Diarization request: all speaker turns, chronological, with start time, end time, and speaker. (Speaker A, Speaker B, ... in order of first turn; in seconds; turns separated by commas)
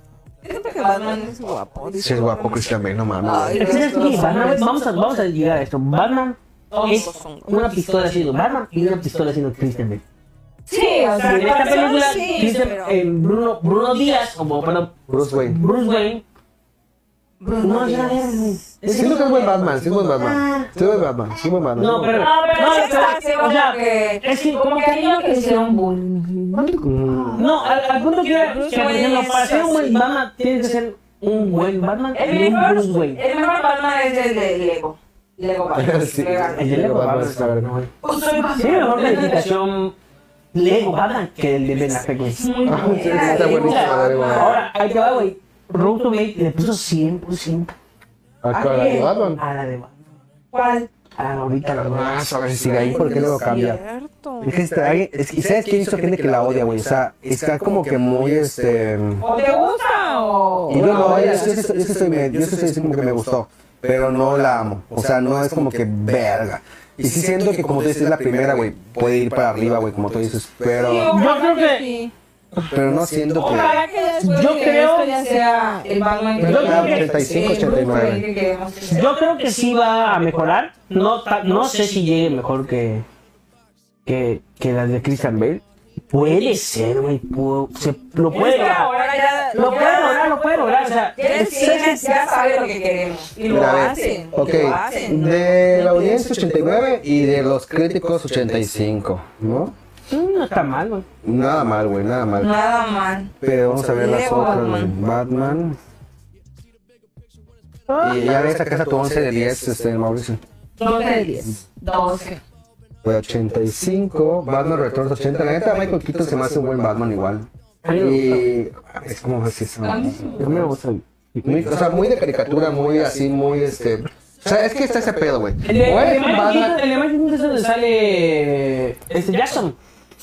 Speaker A: 0.4-2.7, Speaker B: 2.0-4.0, Speaker A: 3.2-4.7, Speaker C: 3.5-10.0, Speaker A: 6.7-7.7, Speaker A: 10.7-13.0, Speaker C: 11.2-16.2, Speaker B: 15.1-15.6, Speaker A: 17.4-18.6, Speaker C: 17.6-20.7, Speaker B: 18.9-22.3, Speaker C: 21.8-25.0, Speaker A: 22.1-27.4, Speaker B: 26.7-27.4, Speaker C: 27.3-33.2, Speaker A: 28.2-30.0, Speaker A: 32.1-36.8, Speaker B: 35.7-37.8, Speaker C: 36.5-37.9, Speaker A: 38.0-39.4, Speaker C: 38.5-40.0, Speaker C: 40.5-47.7, Speaker A: 42.4-44.6, Speaker B: 42.6-44.6, Speaker B: 48.4-49.4, Speaker A: 48.5-49.1, Speaker C: 49.0-50.0, Speaker A: 50.5-50.9, Speaker C: 51.2-52.4, Speaker B: 51.7-53.8, Speaker A: 52.7-54.5, Speaker B: 54.4-59.2, Speaker A: 59.2-61.5, Speaker B: 60.7-71.1, Speaker C: 60.7-61.2, Speaker A: 70.7-72.1, Speaker C: 71.1-71.8, Speaker B: 72.6-73.8, Speaker A: 73.4-79.1, Speaker C: 73.4-75.1, Speaker C: 76.4-77.4, Speaker B: 76.4-78.2, Speaker C: 78.9-83.0, Speaker C: 84.0-88.9, Speaker A: 88.3-90.3, Speaker C: 89.5-92.0, Speaker A: 91.2-96.2, Speaker B: 93.5-99.7, Speaker C: 100.1-101.0, Speaker B: 101.2-102.5, Speaker A: 102.4-103.3, Speaker B: 103.4-105.8, Speaker A: 103.9-104.9, Speaker C: 107.9-108.2, Speaker B: 108.0-110.4, Speaker A: 110.8-112.4, Speaker B: 113.0-120.7, Speaker C: 117.8-118.4, Speaker A: 119.8-120.4, Speaker C: 120.4-121.7, Speaker B: 121.4-126.8, Speaker C: 125.6-129.8